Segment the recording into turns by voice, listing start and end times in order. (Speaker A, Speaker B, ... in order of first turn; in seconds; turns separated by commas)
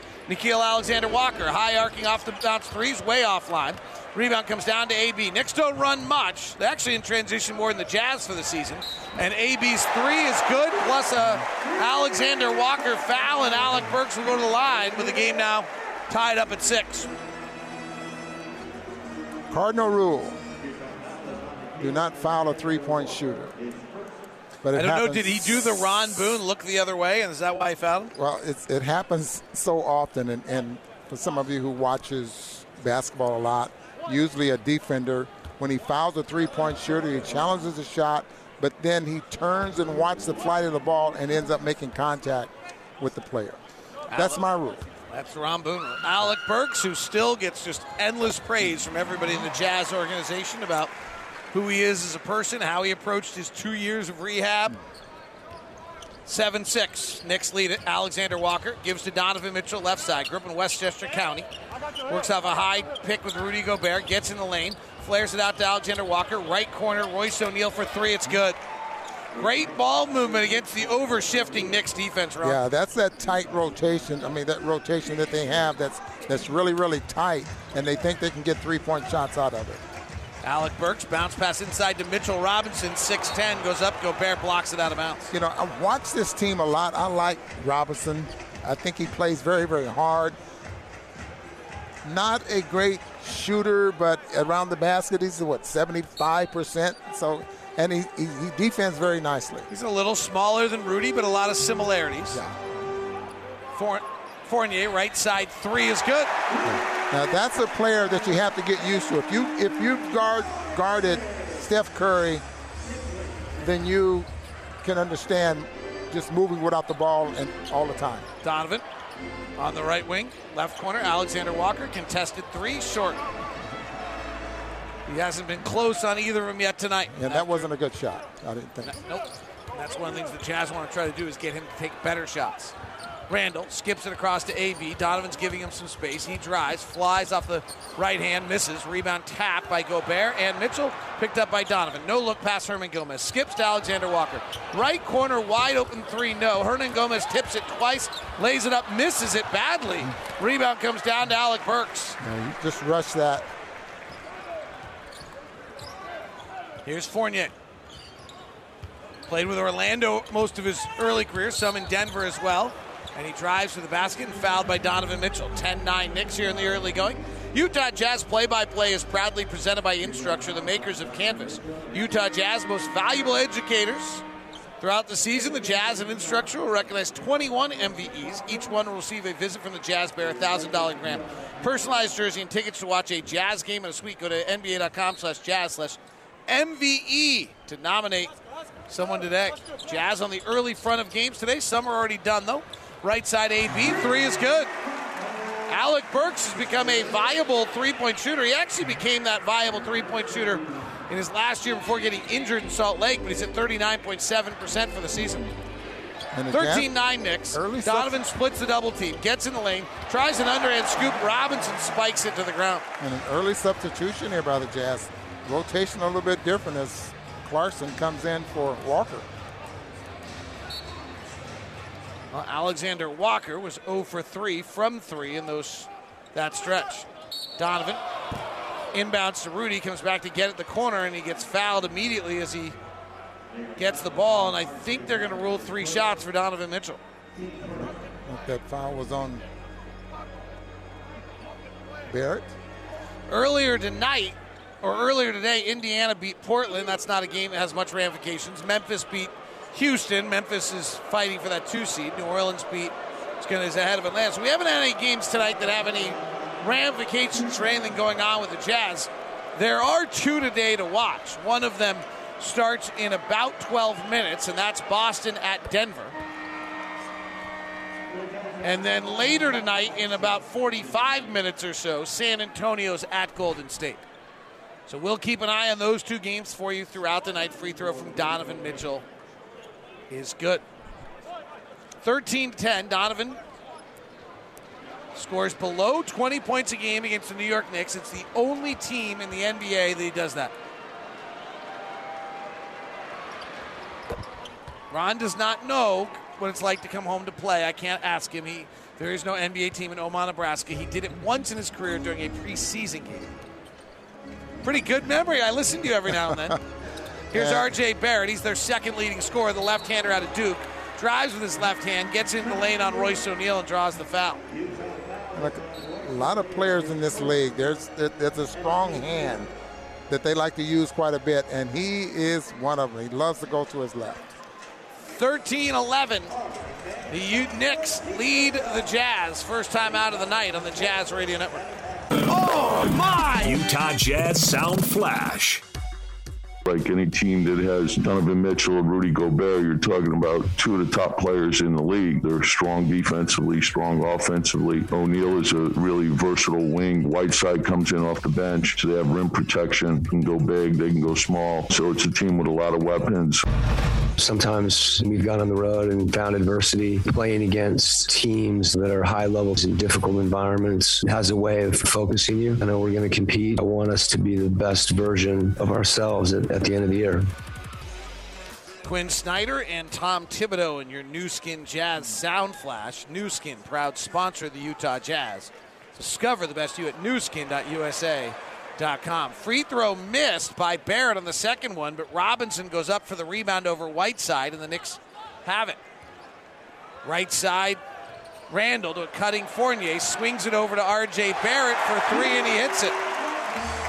Speaker A: 0.3-17.1, Speaker B: 19.5-20.4, Speaker B: 21.8-23.5, Speaker B: 24.6-26.3, Speaker A: 24.7-28.1, Speaker B: 28.1-43.6, Speaker A: 44.1-44.4, Speaker B: 44.1-44.8, Speaker A: 45.1-50.9, Speaker A: 51.5-54.8, Speaker A: 56.2-61.5, Speaker A: 62.0-68.6, Speaker A: 69.3-72.6, Speaker B: 72.4-79.8, Speaker A: 80.4-85.3, Speaker B: 85.3-90.4, Speaker B: 92.0-99.7, Speaker A: 99.7-102.4, Speaker B: 102.3-102.8, Speaker A: 103.7-106.3, Speaker B: 106.6-112.4, Speaker B: 113.6-114.3, Speaker B: 114.8-118.3, Speaker A: 118.4-118.8, Speaker A: 119.6-123.2, Speaker A: 125.1-127.7, Speaker B: 127.1-128.9, Speaker A: 128.8-132.7, Speaker A: 133.3-152.2, Speaker B: 152.2-153.4, Speaker A: 156.8-157.5, Speaker A: 159.2-174.2, Speaker A: 174.8-188.3, Speaker A: 188.9-194.7, Speaker A: 195.7-205.5, Speaker B: 206.3-206.9, Speaker A: 206.5-212.8, Speaker B: 207.5-208.2, Speaker B: 213.0-219.3, Speaker A: 222.3-228.0, Speaker A: 228.9-232.8, Speaker A: 233.8-237.0, Speaker B: 237.7-239.4, Speaker B: 242.1-242.5, Speaker A: 243.3-266.1, Speaker A: 268.6-274.0, Speaker A: 274.9-279.0, Speaker A: 280.1-280.6, Speaker A: 282.0-283.4, Speaker A: 285.1-290.5, Speaker A: 294.9-303.3, Speaker A: 304.6-306.6, Speaker B: 306.1-306.6, Speaker B: 307.3-307.7, Speaker A: 307.3-314.4, Speaker B: 315.3-319.5, Speaker B: 320.1-324.3, Speaker A: 325.1-326.3, Speaker A: 327.1-331.7, Speaker A: 332.2-333.6, Speaker C: 333.4-335.6, Speaker D: 336.6-353.4, Speaker E: 354.2-367.3, Speaker A: 368.8-385.8, Speaker A: 387.0-387.8, Speaker A: 388.5-393.0